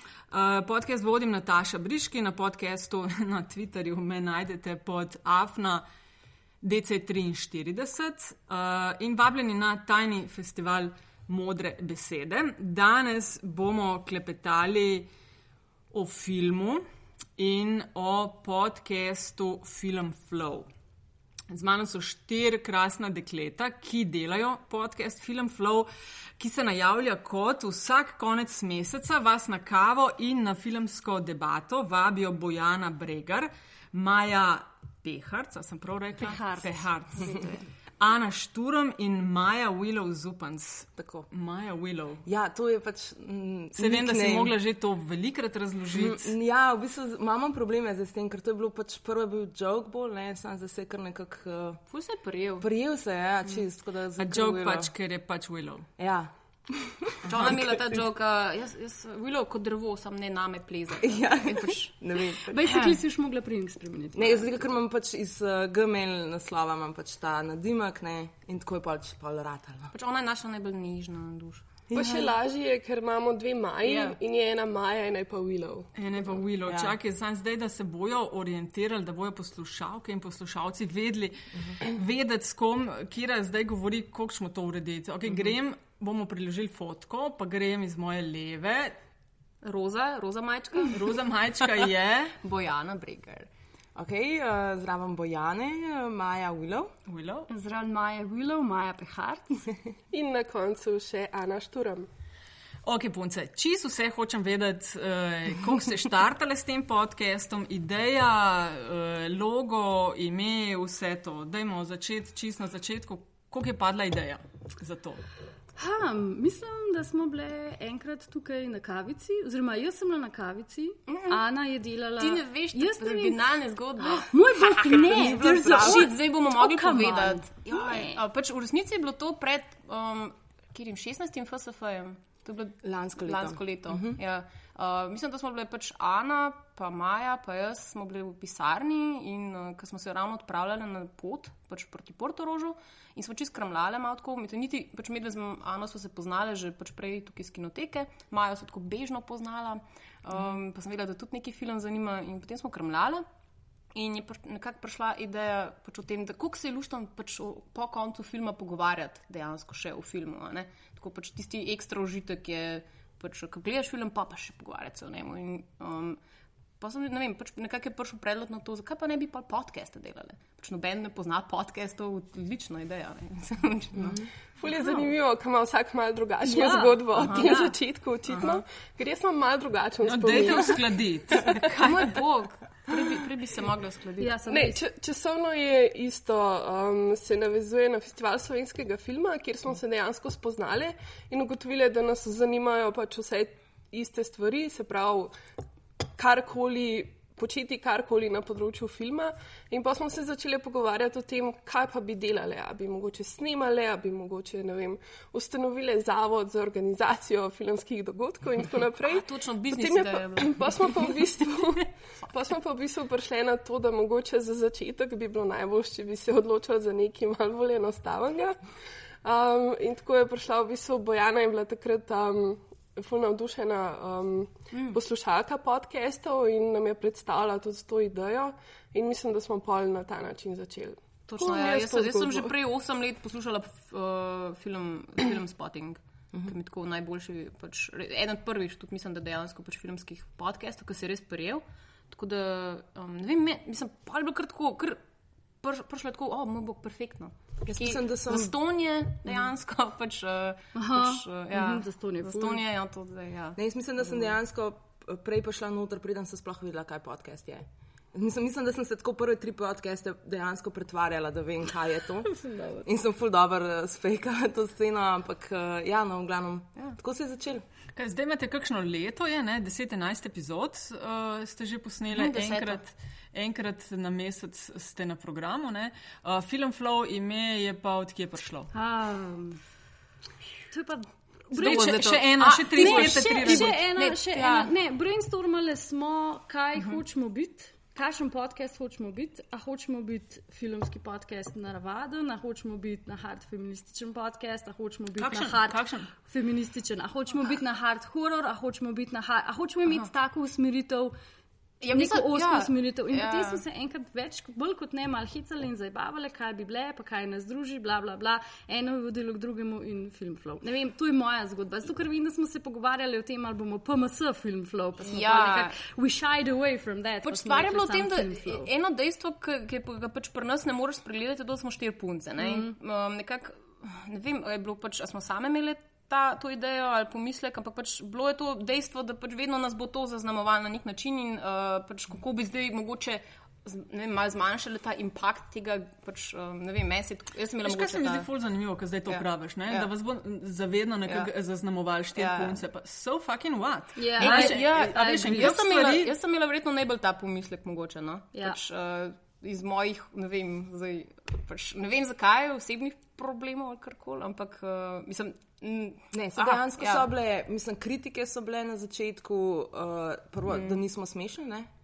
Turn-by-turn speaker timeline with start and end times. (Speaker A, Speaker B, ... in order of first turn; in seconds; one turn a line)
Speaker A: 0.3-5.8
Speaker A: 6.6-15.1
Speaker A: 15.9-16.8
Speaker A: 17.4-20.7
Speaker A: 21.5-25.9
Speaker A: 26.4-37.5
Speaker B: 36.2-37.6
Speaker A: 38.0-42.2
Speaker C: 41.0-41.3
Speaker C: 42.2-44.5
Speaker A: 43.8-46.3
Speaker C: 46.0-51.8
Speaker D: 51.9-52.7
Speaker C: 52.6-54.9
Speaker A: 54.2-55.9
Speaker C: 56.0-58.0
Speaker D: 57.3-61.9
Speaker C: 61.0-62.6
Speaker B: 62.4-64.5
Speaker D: 62.7-63.0
Speaker C: 64.2-69.9
Speaker D: 69.9-71.9
Speaker C: 71.9-72.3
Speaker E: 71.9-75.9
Speaker D: 73.8-74.2
Speaker A: 76.0-89.0
Speaker C: 76.7-76.9
Speaker D: 89.6-91.1
Speaker A: 90.9-92.3
Speaker D: 92.4-93.5
Speaker C: 94.0-96.9
Speaker A: 97.1-97.5
Speaker B: 97.5-99.7
Speaker E: 100.1-102.1
Speaker A: 102.8-115.2
Speaker B: 115.8-123.4
Speaker D: 121.1-121.4
Speaker D: 122.2-153.2
Speaker B: 124.0-128.2
Speaker C: 124.9-126.1
Speaker C: 132.8-134.2
Speaker D: 153.9-166.2
Speaker D: 166.8-174.2
Speaker E: 174.6-180.9
Speaker B: 176.4-177.7
Speaker D: 177.2-177.7
Speaker D: 178.3-178.6
Speaker A: 180.0-182.2
Speaker D: 181.5-184.4
Speaker B: 184.2-184.8
Speaker E: 184.5-195.3
Speaker E: 196.2-218.6
Speaker D: 209.0-211.8
Speaker E: 219.2-232.5
Speaker D: 224.7-225.0
Speaker D: 231.3-245.0
Speaker D: 245.6-254.3
Speaker C: 247.7-248.5
Speaker B: 250.8-252.6
Speaker C: 253.6-267.6
Speaker B: 262.3-262.9
Speaker A: 267.9-278.7
Speaker D: 272.1-272.8
Speaker B: 278.7-279.6
Speaker B: 280.7-301.1
Speaker A: 281.5-283.8
Speaker D: 281.6-284.7
Speaker A: 295.2-296.1
Speaker D: 301.8-303.6
Speaker B: 301.9-318.7
Speaker D: 315.0-315.8
Speaker D: 317.2-338.3
Speaker B: 322.4-322.7
Speaker A: 337.6-346.1
Speaker D: 339.1-339.9
Speaker D: 342.1-342.6
Speaker B: 344.0-345.6
Speaker D: 344.2-357.1
Speaker C: 356.1-361.7
Speaker D: 360.5-360.8